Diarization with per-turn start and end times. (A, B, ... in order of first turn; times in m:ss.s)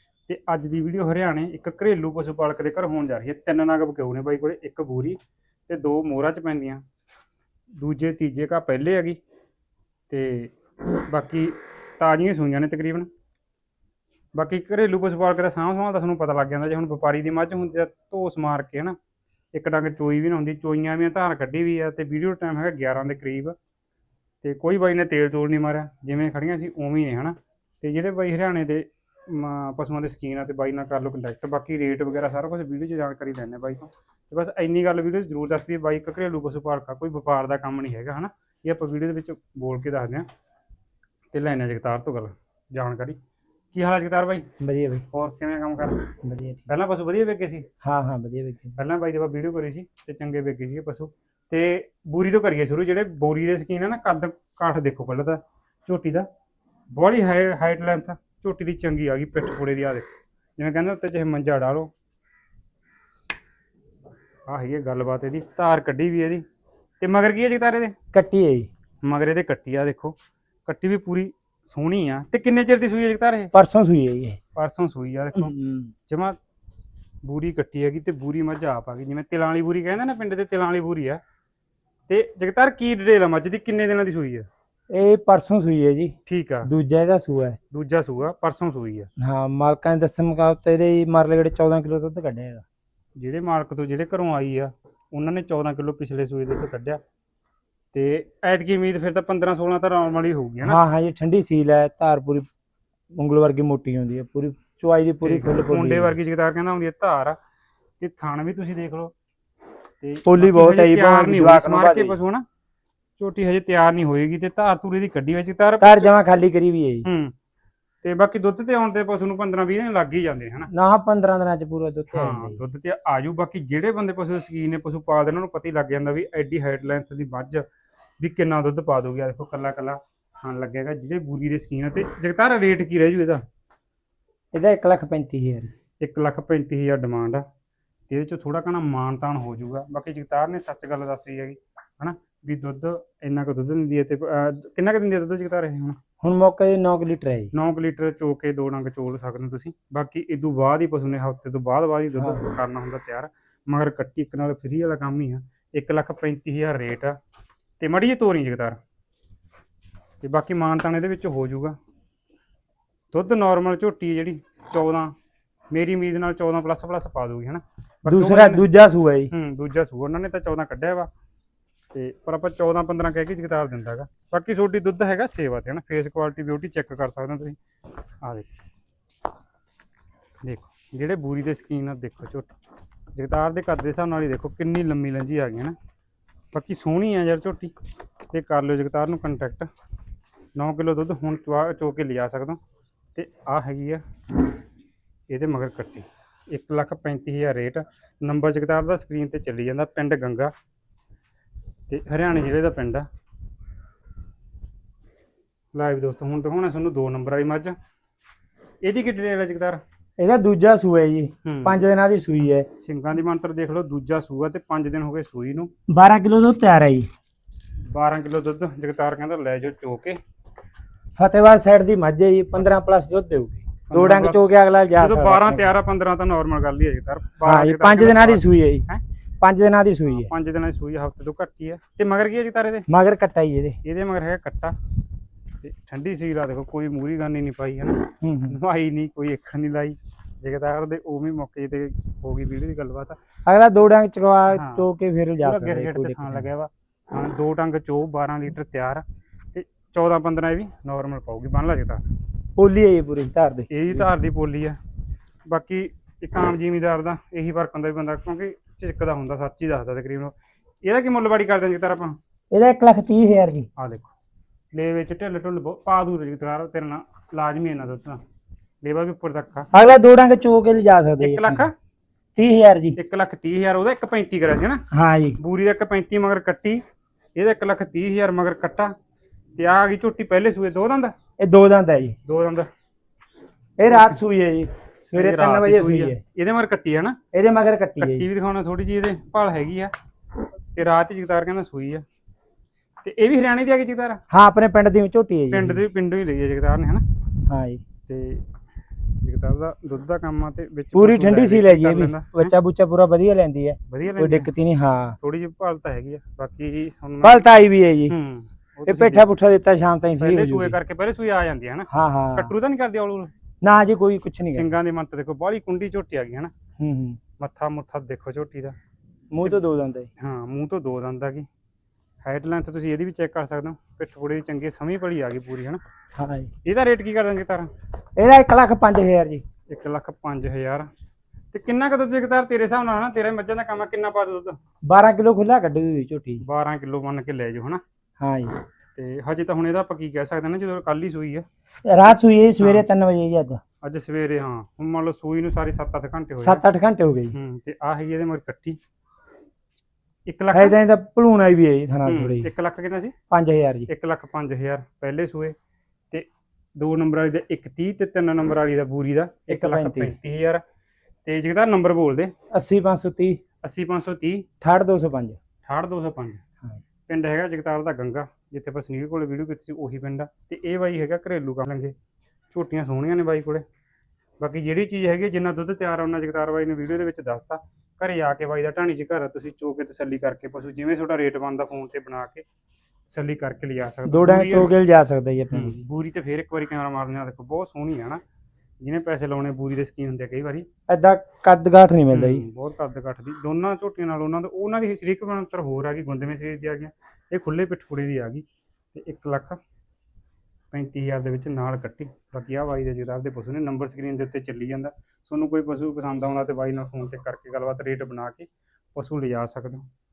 0:00.3-0:06.8 A
0:07.8-0:09.2 A
0:10.1-0:13.1 A
0:14.4-0:19.0 A
0:19.5-0:23.6 A
0:24.4-0:40.3 A
0:41.3-0:43.2 A
0:43.7-0:44.5 A
0:44.6-0:45.1 B
0:45.1-0:46.1 A
0:46.2-0:46.7 B
0:46.7-0:47.7 A
0:47.8-0:48.8 B
0:48.8-0:56.3 A
0:56.9-1:01.9 A
1:04.5-1:06.4 A
1:07.0-1:08.0 A
1:08.1-1:08.7 B
1:09.0-1:10.2 A
1:10.7-1:13.5 A
1:13.5-1:14.4 B
1:14.6-1:15.5 A
1:15.4-1:15.9 B
1:16.1-1:16.4 A
1:17.2-1:21.2 A
1:22.1-1:24.5 A
1:24.9-1:27.6 B
1:26.3-1:26.7 A
1:27.7-1:29.1 A
1:29.2-1:32.6 B
1:33.2-1:37.0 A
1:37.9-1:40.8 A
1:40.6-1:42.5 B
1:43.2-1:46.2 B
1:45.2-1:47.4 A
1:48.0-1:49.1 A
1:50.0-1:52.4 A
1:50.2-1:52.2 B
1:53.2-1:56.1 A
1:55.8-1:57.1 B
1:57.0-1:57.3 A
1:58.0-2:00.7 A
2:00.7-2:02.6 B
2:02.1-2:07.6 A
2:08.2-2:13.4 A
2:14.5-2:15.7 B
2:16.0-2:17.4 A
2:18.1-2:26.0 A
2:26.2-2:27.5 B
2:27.5-2:37.2 A
2:32.2-2:32.6 B
2:37.8-2:38.8 A
2:40.2-2:41.8 A
2:43.1-2:45.1 A
2:45.7-2:48.7 A
2:48.1-2:49.3 B
2:49.3-2:51.1 A
2:51.9-2:57.6 A
2:58.2-2:58.5 A
3:00.4-3:02.5 A
3:03.1-3:05.8 A
3:06.5-3:07.7 A
3:08.3-3:09.7 A
3:10.6-3:12.6 A
3:13.2-3:14.0 A
3:15.3-3:20.5 A
3:21.9-3:23.1 A
3:25.7-3:27.8 A
3:28.8-3:29.8 A
3:30.2-3:32.7 B
3:31.4-3:31.8 A
3:32.8-3:35.7 A
3:35.9-3:37.1 B
3:37.9-3:40.2 A
3:41.2-3:45.7 B
3:43.9-3:49.0 A
3:47.4-3:48.9 B
3:49.4-3:50.3 B
3:50.1-3:52.9 A
3:52.9-3:53.8 B
3:53.8-3:54.8 A
3:55.6-4:03.2 A
3:58.2-3:58.6 B
4:03.5-4:06.5 B
4:04.5-4:04.9 A
4:05.4-4:12.0 A
4:12.6-4:14.1 B
4:13.7-4:14.8 A
4:15.5-4:22.2 A
4:22.5-4:23.7 B
4:23.8-4:24.1 A
4:24.7-4:28.2 A
4:28.8-4:29.7 A
4:29.7-4:31.7 B
4:31.2-4:31.7 A
4:32.4-4:33.0 B
4:33.0-4:34.8 A
4:34.9-4:35.4 B
4:35.4-4:36.8 A
4:37.4-4:38.9 A
4:39.6-4:41.1 A
4:41.4-4:42.2 B
4:42.2-4:42.7 A
4:43.8-4:46.2 B
4:43.9-4:44.2 A
4:45.1-4:47.2 A
4:47.3-4:48.3 B
4:48.0-4:49.9 A
4:50.7-4:52.0 A
4:53.0-4:54.2 A
4:54.3-4:55.8 B
4:55.5-4:57.0 A
4:57.5-4:57.8 B
4:58.1-4:58.4 A
4:59.2-5:02.5 A
5:00.9-5:05.2 B
5:03.9-5:04.5 A
5:05.2-5:07.4 A
5:07.2-5:08.2 B
5:08.1-5:09.3 A
5:08.9-5:10.8 B
5:10.2-5:13.3 A
5:11.9-5:12.5 B
5:13.6-5:14.7 B
5:14.4-5:16.5 A
5:16.8-5:17.2 B
5:17.4-5:18.8 A
5:19.3-5:20.1 B
5:20.2-5:21.5 A
5:22.2-5:25.8 A
5:26.2-5:26.5 B
5:26.6-5:27.7 A
5:28.2-5:29.4 B
5:29.7-5:30.9 A
5:31.5-5:34.6 A
5:34.8-5:36.4 B
5:36.4-5:37.8 A
5:38.2-5:38.6 B
5:39.0-5:41.4 A
5:41.8-5:43.6 B
5:42.6-5:42.8 A
5:43.8-5:46.6 A
5:46.4-5:47.4 B
5:47.3-5:48.8 A
5:50.3-5:50.8 A
5:50.5-5:52.5 B
5:52.0-5:53.1 A
5:53.3-5:53.9 B
5:53.9-5:55.6 A
5:56.1-6:00.6 A
5:59.5-6:00.2 B
6:01.2-6:02.3 A
6:02.5-6:03.4 B
6:03.6-6:04.5 A
6:04.6-6:05.4 B
6:05.7-6:06.4 A
6:07.1-6:11.9 A
6:12.5-6:13.6 A
6:14.4-6:22.4 A
6:23.1-6:24.7 A
6:24.1-6:25.8 B
6:25.5-6:28.2 A
6:28.8-6:30.7 A
6:30.9-6:32.5 B
6:32.1-6:39.6 A
6:40.7-6:49.9 A